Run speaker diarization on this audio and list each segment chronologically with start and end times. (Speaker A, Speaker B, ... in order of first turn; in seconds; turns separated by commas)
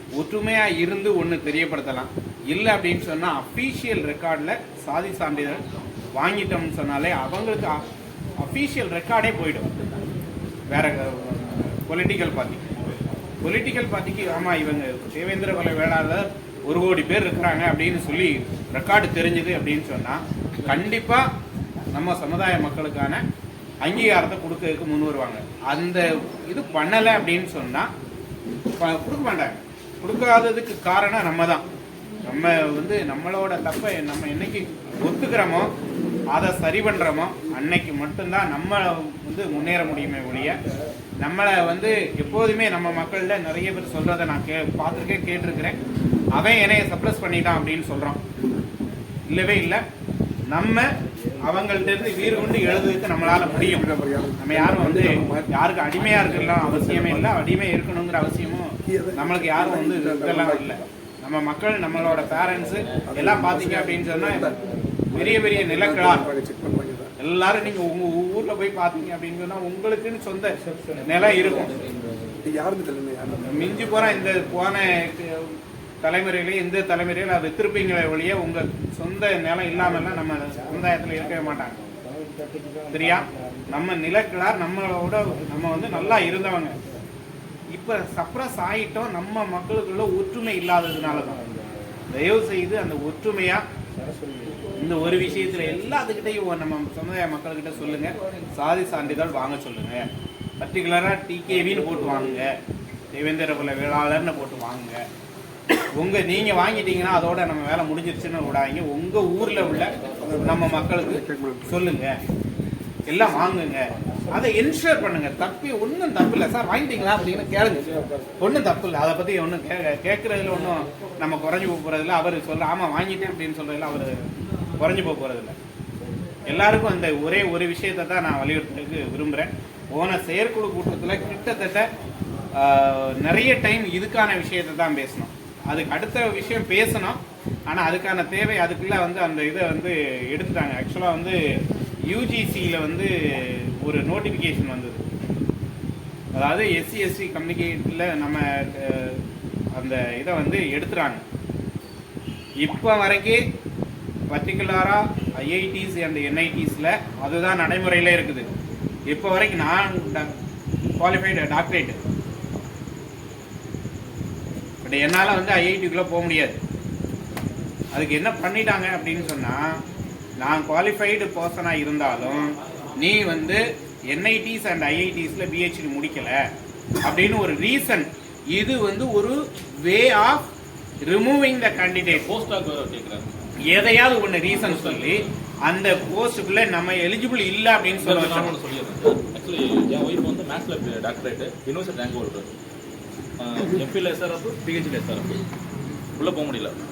Speaker A: 0.2-5.6, Speaker A: 6.2-7.8, Speaker A: 8.4-9.7, Speaker A: 10.7-12.7, Speaker A: 13.4-21.3, Speaker A: 21.9-23.2, Speaker A: 23.8-27.9, Speaker A: 28.8-31.6, Speaker A: 32.3-35.7, Speaker A: 36.3-40.6, Speaker A: 41.2-45.8, Speaker A: 46.4-48.2, Speaker A: 49.3-49.8, Speaker A: 50.5-50.9, Speaker A: 51.5-64.5, Speaker B: 53.4-55.5, Speaker B: 56.2-57.3, Speaker B: 58.9-60.9, Speaker B: 63.1-64.5, Speaker B: 65.1-67.1, Speaker A: 65.1-66.3, Speaker A: 67.2-71.8, Speaker B: 72.4-73.6, Speaker A: 73.5-81.8, Speaker A: 82.9-86.8, Speaker A: 87.7-91.4, Speaker A: 92.1-93.6, Speaker A: 94.8-100.1, Speaker A: 100.6-102.5, Speaker A: 103.1-105.0, Speaker A: 106.0-112.2, Speaker B: 110.2-111.7, Speaker A: 113.1-117.9, Speaker A: 118.4-124.2, Speaker A: 124.8-125.5, Speaker A: 126.5-131.9, Speaker A: 132.5-141.4, Speaker A: 142.1-145.0, Speaker A: 146.3-149.2, Speaker A: 149.8-151.2, Speaker A: 152.6-153.4, Speaker A: 154.3-158.5, Speaker A: 159.1-160.3, Speaker A: 161.0-162.0, Speaker A: 164.8-166.6, Speaker A: 167.9-169.7, Speaker A: 170.4-176.4, Speaker A: 177.0-180.5, Speaker A: 181.0-182.3, Speaker C: 182.2-183.2, Speaker A: 183.7-188.6, Speaker C: 184.5-185.3, Speaker C: 188.0-192.5, Speaker C: 193.4-195.3, Speaker C: 196.2-196.8